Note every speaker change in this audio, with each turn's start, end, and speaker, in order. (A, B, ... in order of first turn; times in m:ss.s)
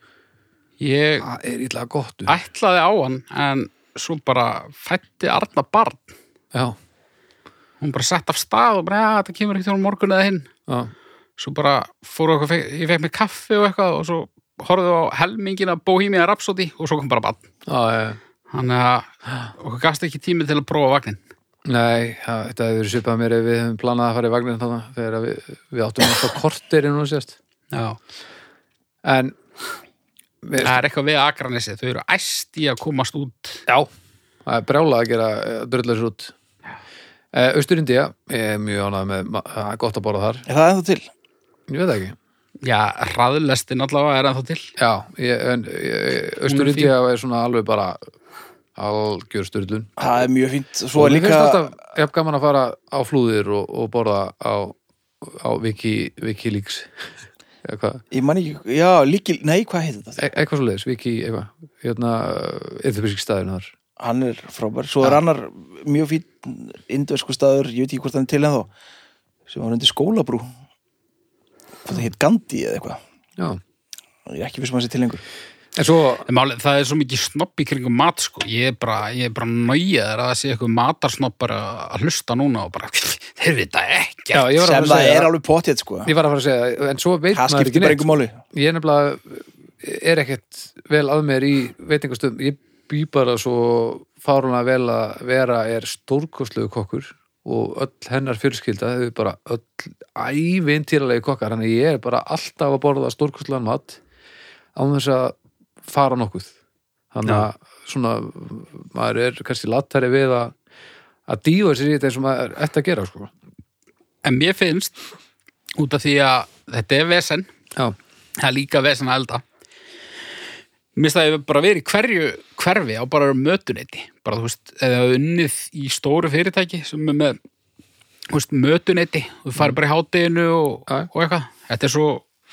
0:00.8-0:01.3 A
0:01.2-0:02.4 B
0:02.3-0:06.1 A
0:07.8-0:10.5 A
0:10.7-0:10.9 B
0:11.4-0:17.4 A
0:17.7-0:18.2 B
0:18.5-0:21.2 A
0:21.6-0:27.4 B
0:27.7-0:28.0 A
0:29.0-0:29.4 B
0:30.4-0:30.8 B
0:30.6-0:33.6 A
0:34.4-0:36.3 B
0:37.3-0:40.4 B
0:40.5-0:41.1 C
0:41.7-0:42.2 B
0:42.6-0:44.7 A
0:44.8-0:48.0 B
0:46.4-0:46.9 A
0:48.8-0:49.9 B
0:50.0-0:51.7 C
0:51.0-0:57.1 B
0:57.6-0:58.0 B
0:58.1-1:00.2 C
1:00.2-1:03.7 B
1:04.0-1:08.7 C
1:09.5-1:10.5 C
1:11.8-1:13.0 C
1:14.3-1:15.2 C
1:15.7-1:16.3 B
1:16.3-1:24.5 A
1:24.3-1:25.3 B
1:24.6-1:26.1 C
1:26.0-1:44.0 B
1:27.3-1:28.4 C
1:44.7-1:46.5 B
1:47.1-1:50.6 B
1:51.3-1:53.3 B
1:54.2-1:55.0 A
1:55.8-1:57.5 A
1:58.4-1:59.4 A
2:01.0-2:07.4 A
2:08.3-2:12.2 A